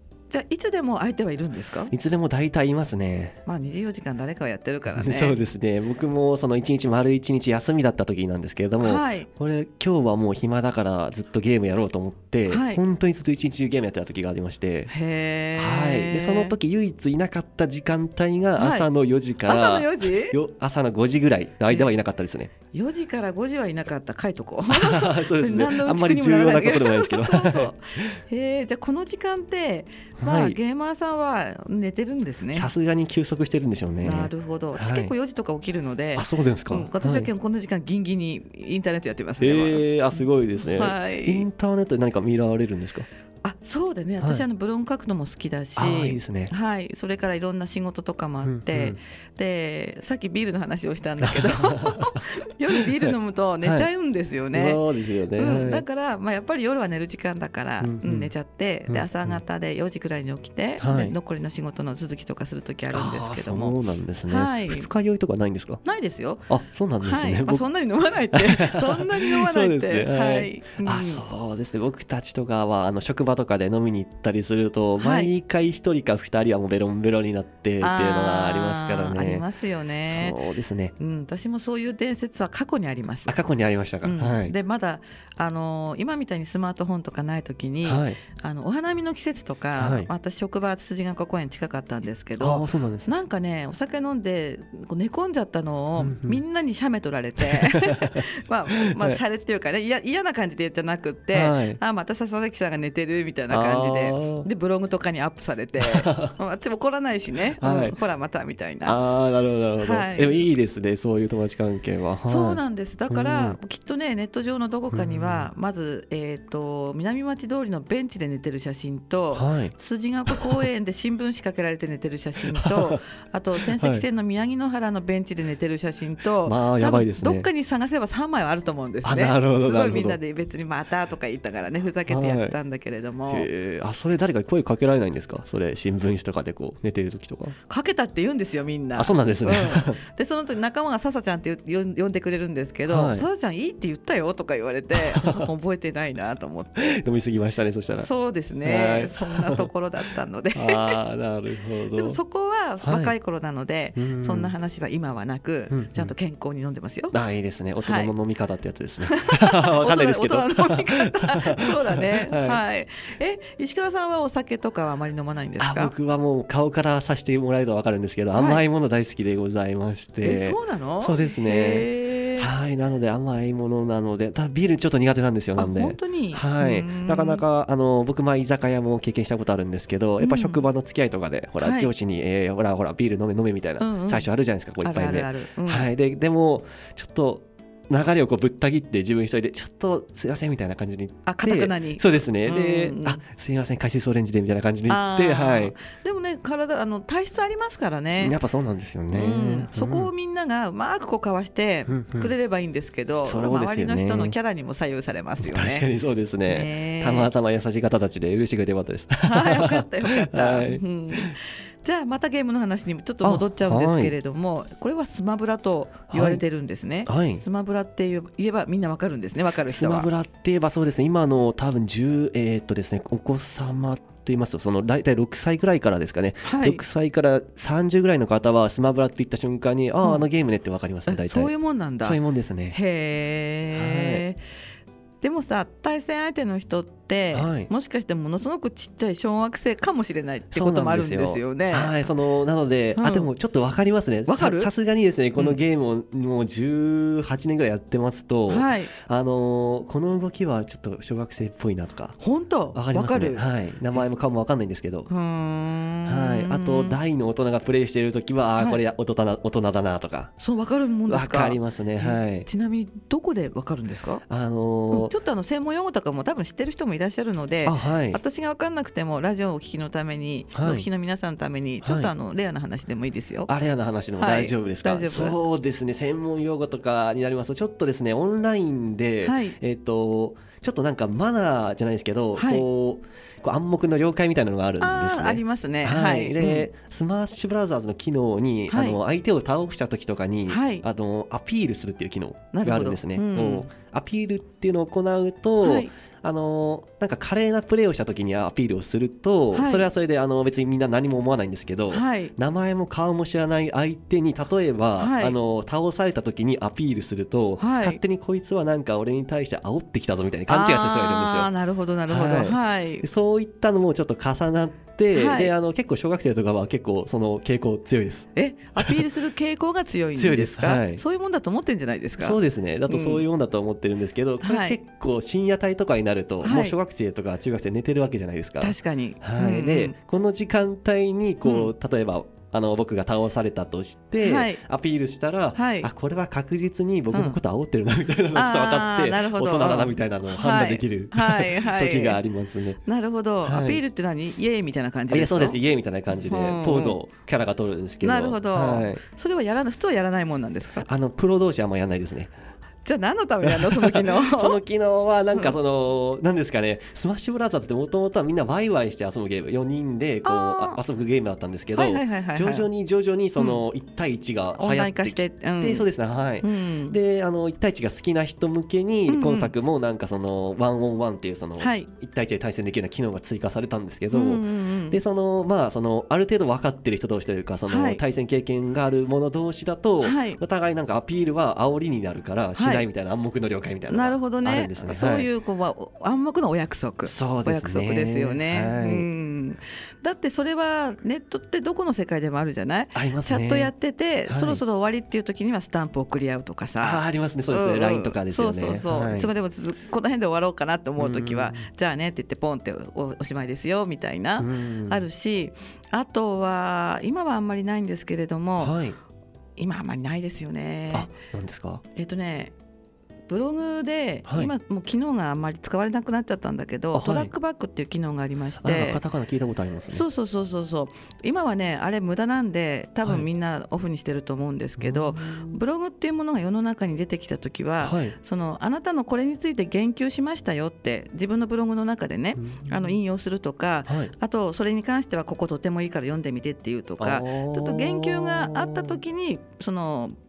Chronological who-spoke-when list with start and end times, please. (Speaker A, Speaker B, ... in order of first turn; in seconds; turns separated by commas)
Speaker A: 0.3-1.9, Speaker B: 1.9-3.4, Speaker A: 3.5-5.4, Speaker B: 4.9-14.9, Speaker A: 8.8-9.3, Speaker A: 12.5-12.8, Speaker A: 14.9-16.5, Speaker B: 15.6-22.5, Speaker A: 18.6-18.9, Speaker A: 19.4-20.4, Speaker A: 22.7-32.7, Speaker B: 24.7-28.2, Speaker B: 30.2-30.6, Speaker B: 32.5-35.1, Speaker A: 34.0-41.5, Speaker B: 36.1-37.3, Speaker B: 39.4-43.0, Speaker A: 43.4-54.8, Speaker B: 44.2-44.4, Speaker B: 45.8-46.5, Speaker B: 48.4-49.0, Speaker B: 51.2-53.9, Speaker B: 54.5-55.8, Speaker A: 55.4-63.8, Speaker B: 57.8-58.3, Speaker B: 58.9-59.4, Speaker B: 60.8-61.1, Speaker B: 62.9-65.8, Speaker A: 64.3-64.9, Speaker A: 65.8-66.5, Speaker B: 66.5-67.6, Speaker A: 67.0-71.2, Speaker B: 68.3-79.4, Speaker A: 75.0-75.3, Speaker A: 77.8-80.4, Speaker B: 80.1-80.9, Speaker A: 81.0-83.4, Speaker B: 83.3-84.5, Speaker A: 84.0-109.0, Speaker B: 87.8-88.2, Speaker B: 89.8-90.1, Speaker B: 92.4-93.1, Speaker B: 96.0-96.4, Speaker B: 97.4-98.2, Speaker B: 98.8-99.2, Speaker B: 101.3-101.8, Speaker B: 103.5-104.5, Speaker B: 105.8-106.3, Speaker B: 107.6-108.0, Speaker B: 108.8-113.6, Speaker A: 109.8-110.5, Speaker A: 112.2-133.5, Speaker B: 114.9-115.5, Speaker B: 119.3-119.7, Speaker B: 120.3-120.7, Speaker B: 122.5-123.0, Speaker B: 123.6-124.0, Speaker B: 126.4-127.5, Speaker B: 129.0-130.2, Speaker B: 132.1-132.5, Speaker B: 133.3-137.6, Speaker A: 137.7-146.9, Speaker B: 139.0-140.0, Speaker B: 142.9-143.2, Speaker B: 144.9-145.5, Speaker B: 146.8-148.1, Speaker A: 147.9-151.0, Speaker B: 148.6-149.7, Speaker B: 150.5-152.2, Speaker A: 151.9-157.1, Speaker B: 152.8-153.1, Speaker B: 153.9-154.5, Speaker B: 155.7-156.1, Speaker B: 157.1-162.6, Speaker A: 157.8-158.1, Speaker A: 159.0-165.9, Speaker B: 165.6-195.7, Speaker A: 168.3-168.6, Speaker A: 170.2-172.5, Speaker A: 175.6-177.4, Speaker A: 180.2-180.6, Speaker A: 181.6-181.9, Speaker A: 183.8-184.3, Speaker A: 184.8-185.9, Speaker A: 191.2-193.2, Speaker A: 194.9-198.3, Speaker B: 198.2-200.1, Speaker A: 199.1-205.8, Speaker B: 201.9-202.3, Speaker B: 203.2-204.3, Speaker B: 205.4-211.3, Speaker A: 206.5-207.3, Speaker A: 209.2-220.1, Speaker B: 213.2-214.1, Speaker B: 216.1-216.4, Speaker B: 217.1-217.4, Speaker B: 219.7-232.8, Speaker A: 226.4-226.8, Speaker A: 231.1-232.2, Speaker A: 232.7-234.4, Speaker B: 233.7-234.2, Speaker A: 235.2-242.0, Speaker B: 237.3-237.7, Speaker B: 240.5-252.2, Speaker A: 243.0-243.3, Speaker A: 244.3-244.7, Speaker A: 248.5-248.9, Speaker A: 252.2-253.4, Speaker B: 252.7-255.1, Speaker A: 255.1-257.0, Speaker B: 256.1-260.3, Speaker A: 260.4-264.2, Speaker B: 261.1-262.5, Speaker B: 264.3-265.1, Speaker A: 264.9-273.5, Speaker B: 267.6-268.2, Speaker B: 270.5-270.9, Speaker B: 271.8-272.1, Speaker B: 273.5-311.5, Speaker A: 274.2-275.4, Speaker A: 279.2-279.6, Speaker A: 282.4-282.6, Speaker A: 284.8-286.7, Speaker A: 288.7-289.0, Speaker A: 290.5-290.8, Speaker A: 292.5-293.7, Speaker A: 295.6-295.9, Speaker A: 299.5-299.9, Speaker A: 301.9-302.3, Speaker A: 305.0-305.4, Speaker A: 307.6-308.0, Speaker A: 310.5-313.0, Speaker B: 312.1-319.1, Speaker A: 315.1-315.5, Speaker A: 318.4-323.2, Speaker B: 320.1-321.0, Speaker B: 322.2-342.8, Speaker A: 324.4-324.8, Speaker A: 326.4-326.8, Speaker A: 328.6-329.9, Speaker A: 331.4-331.7, Speaker A: 334.2-334.6, Speaker A: 335.5-335.9, Speaker A: 337.1-337.4, Speaker A: 338.3-342.2, Speaker A: 342.8-345.6, Speaker B: 343.4-343.8, Speaker B: 345.1-349.0, Speaker A: 346.1-347.0, Speaker A: 348.0-350.9, Speaker B: 350.8-352.3, Speaker A: 352.8-354.6, Speaker B: 353.4-385.3, Speaker A: 360.2-360.8, Speaker A: 361.8-362.7, Speaker A: 364.6-365.9, Speaker A: 366.4-366.9, Speaker A: 369.1-369.5, Speaker A: 371.6-371.9, Speaker A: 374.1-375.0, Speaker A: 377.7-378.0, Speaker A: 380.0-380.4, Speaker A: 382.6-382.9, Speaker A: 383.9-408.8, Speaker B: 387.1-389.1, Speaker B: 392.9-393.7, Speaker B: 394.3-394.6, Speaker B: 396.8-399.3, Speaker B: 401.0-401.6, Speaker B: 404.4-405.1, Speaker B: 408.6-409.0, Speaker A: 409.6-411.1, Speaker B: 410.9-411.8, Speaker A: 411.9-412.5, Speaker A: 413.3-419.0, Speaker B: 414.2-414.5, Speaker B: 416.9-417.3, Speaker B: 418.6-420.0, Speaker A: 419.9-440.1, Speaker B: 424.8-425.6, Speaker B: 427.8-428.1, Speaker B: 432.4-432.9, Speaker B: 433.9-434.1, Speaker B: 437.0-439.0